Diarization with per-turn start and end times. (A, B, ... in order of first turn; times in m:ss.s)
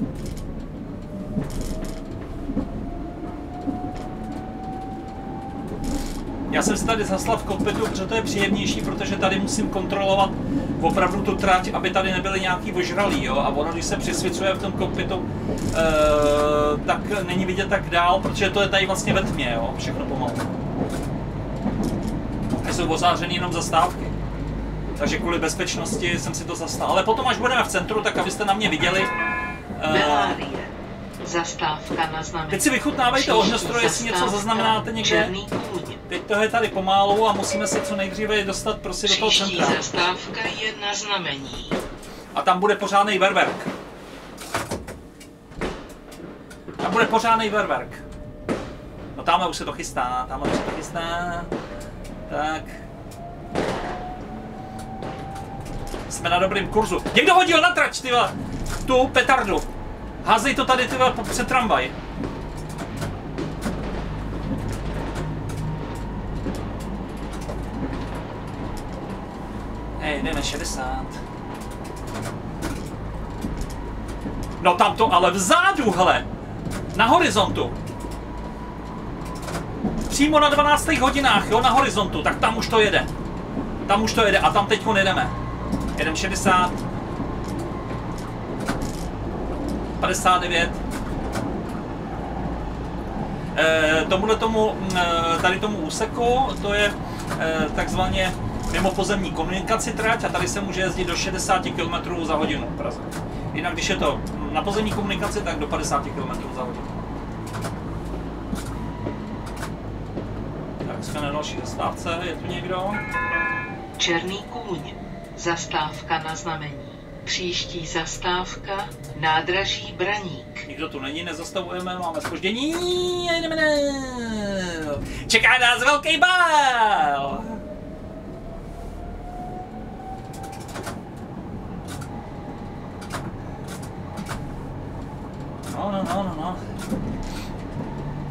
0:06.5-0:20.5 A
0:22.6-0:24.1 A
0:25.0-0:29.1 A
0:29.8-0:30.4 A
0:29.9-0:36.0 B
0:32.5-0:35.3 A
0:36.1-0:39.8 A
0:39.0-0:41.8 B
0:42.3-0:43.7 A
0:46.8-0:48.0 A
0:49.1-0:51.5 A
0:52.3-0:52.8 A
0:56.1-0:58.3 A
0:58.8-0:59.7 A
1:00.2-1:01.9 A
1:10.0-1:11.2 A
1:14.6-1:16.3 A
1:16.9-1:17.8 A
1:20.1-1:23.1 A
1:23.9-1:25.3 A
1:26.0-1:26.8 A
1:30.0-1:30.8 A
1:33.5-1:47.0 A
1:50.8-1:53.0 A
1:54.0-2:00.7 B
2:00.7-2:07.6 A
2:15.7-2:16.6 A